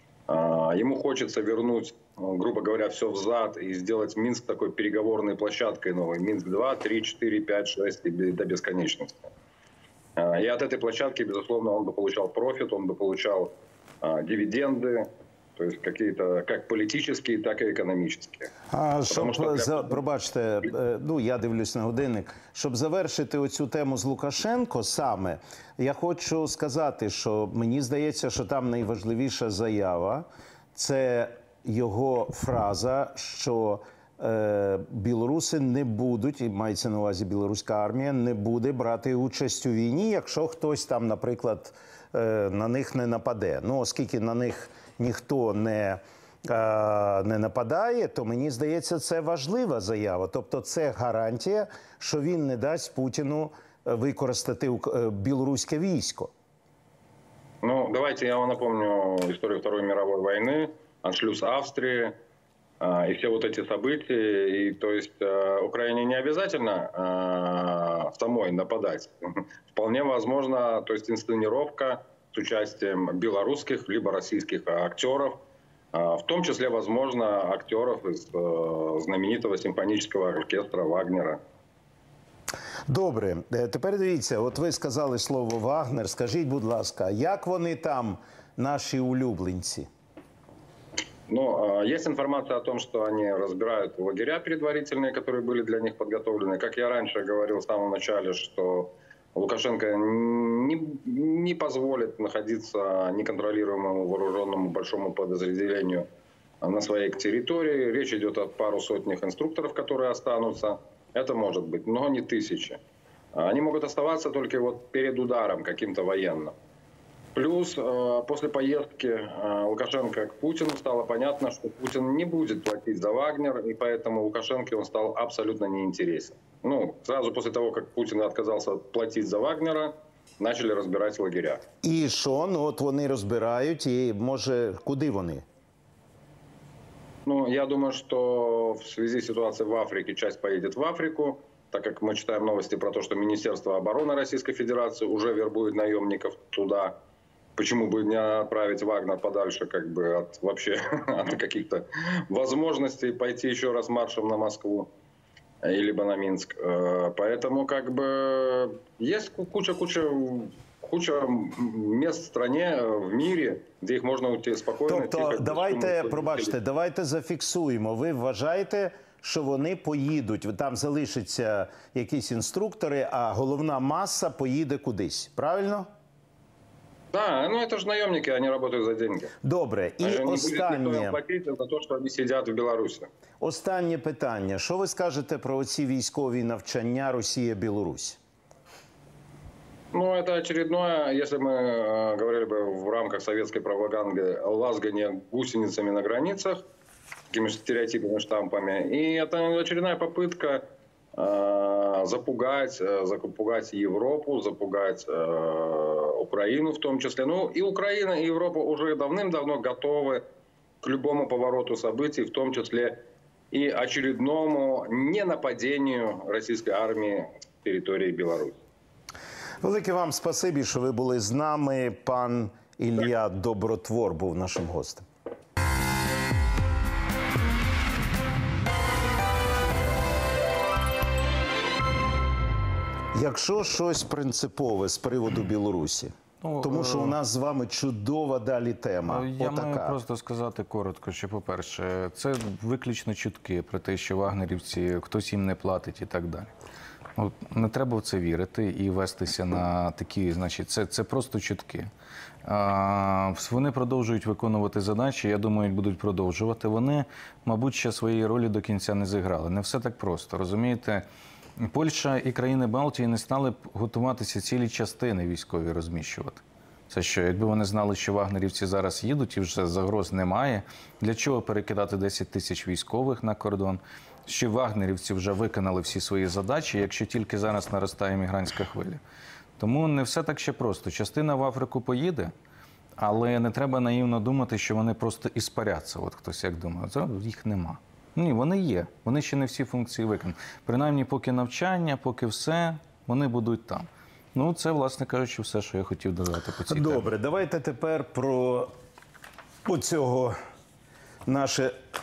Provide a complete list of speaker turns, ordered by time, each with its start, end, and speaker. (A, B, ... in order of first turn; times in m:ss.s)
0:00.3-0:09.3 A
0:10.2-0:18.5 A
0:18.7-0:56.3 B
0:19.1-0:20.0 A
0:57.6-1:02.2 A
1:02.8-1:15.4 A
1:15.9-1:21.4 A
1:22.9-1:29.9 B
1:31.3-1:46.1 A
1:46.6-1:52.8 A
1:53.3-1:56.5 A
1:57.4-2:11.6 A
2:11.8-2:15.4 B
2:17.3-2:27.0 A
2:27.6-2:34.9 A
2:35.6-2:46.5 A
2:44.9-2:55.9 B
2:57.1-2:59.3 A
2:59.4-3:01.2 B
3:00.0-3:03.1 A
3:03.4-3:08.2 B
3:09.9-3:16.6 A
3:17.3-3:20.6 A
3:21.2-3:30.2 A
3:30.8-3:33.0 A
3:33.5-3:38.6 A
3:39.6-3:45.0 B
3:53.1-4:00.0 B
3:56.4-3:57.2 C
3:59.1-4:06.5 C
4:07.2-4:11.9 C
4:12.4-4:21.0 C
4:21.6-4:39.0 C
4:39.6-4:42.3 C
4:43.0-4:57.1 C
4:56.7-4:58.7 B
4:59.6-5:00.4 B
5:01.3-5:01.8 B